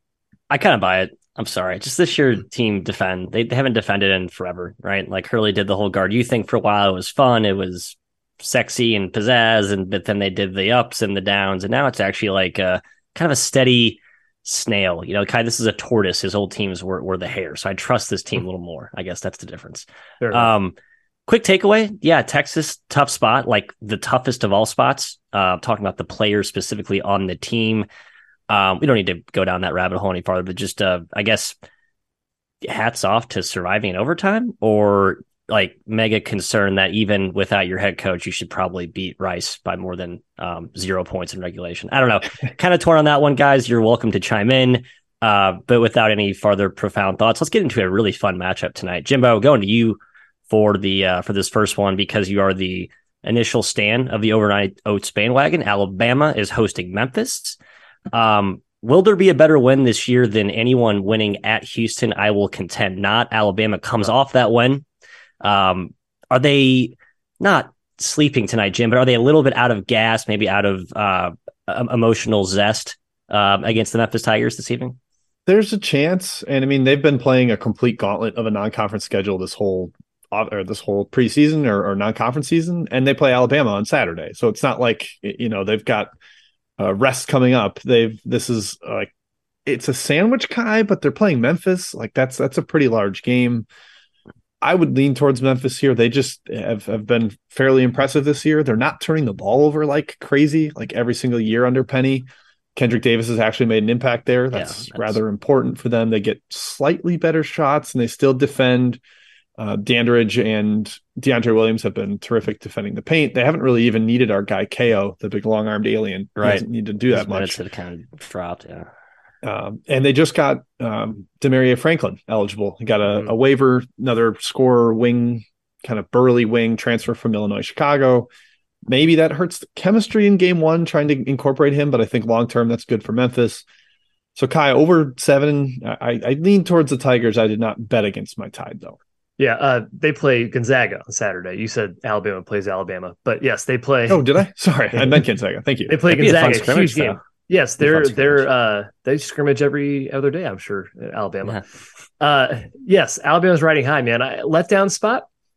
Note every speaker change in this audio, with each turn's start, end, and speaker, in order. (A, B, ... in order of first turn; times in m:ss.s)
0:00.5-0:20.7 A
0:20.2-0:20.5 B
0:21.3-0:27.9 A
0:28.5-0:31.5 A
0:32.6-0:50.0 A
0:50.5-0:57.6 A
0:58.1-1:04.8 A
1:05.4-1:15.0 A
1:15.4-1:26.1 C
1:26.8-1:29.1 C
1:29.6-1:33.7 C
1:34.6-1:49.0 C
1:44.5-1:45.2 A
1:49.6-1:57.6 C
1:56.4-1:58.9 A
1:59.4-2:08.3 C
2:08.9-2:13.6 C
2:14.3-2:19.0 C
2:19.4-2:24.2 B
2:24.1-2:26.0 C
2:25.9-2:31.6 B
2:26.1-2:27.2 A
2:27.8-2:28.4 A
2:32.2-2:35.2 B